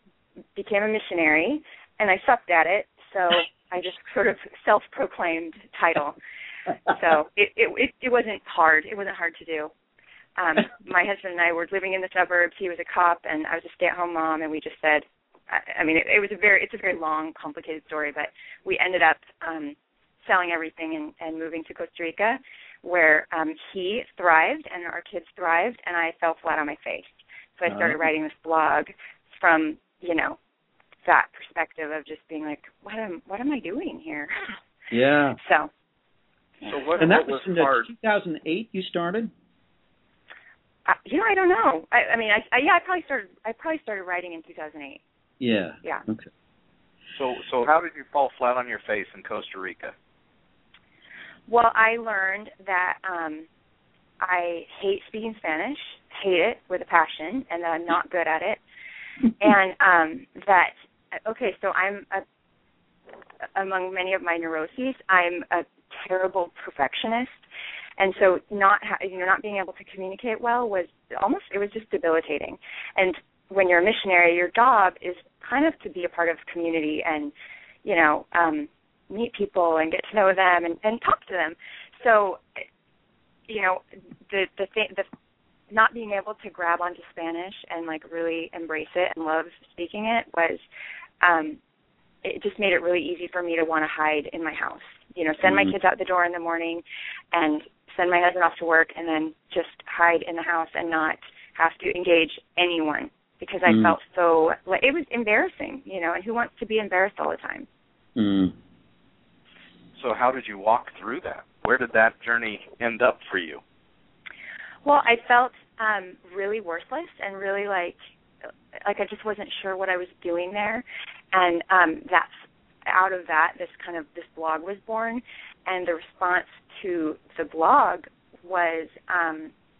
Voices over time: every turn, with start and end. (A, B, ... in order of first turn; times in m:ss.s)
0:00.5-0:06.2 A
0:06.9-0:09.7 A
0:10.4-0:30.4 A
0:27.6-0:28.1 B
0:31.0-0:34.6 A
0:34.9-0:35.4 B
0:35.4-0:35.7 A
0:36.6-0:37.0 A
0:36.7-0:37.9 C
0:37.0-0:39.3 B
0:40.9-0:45.0 A
0:45.4-0:46.3 B
0:47.2-0:49.9 C
0:51.5-0:53.5 A
0:54.2-0:58.6 A
0:59.4-1:02.2 A
1:03.5-1:07.4 A
1:08.0-1:17.3 A
1:17.8-1:22.6 A
1:23.5-1:25.1 A
1:25.7-1:30.6 A
1:31.2-1:31.6 A
1:32.2-1:47.7 A
1:35.4-1:35.7 B
1:43.6-1:44.0 B
1:48.2-1:48.5 B
1:50.0-1:53.6 C
1:54.8-1:58.0 A
1:58.8-2:09.5 A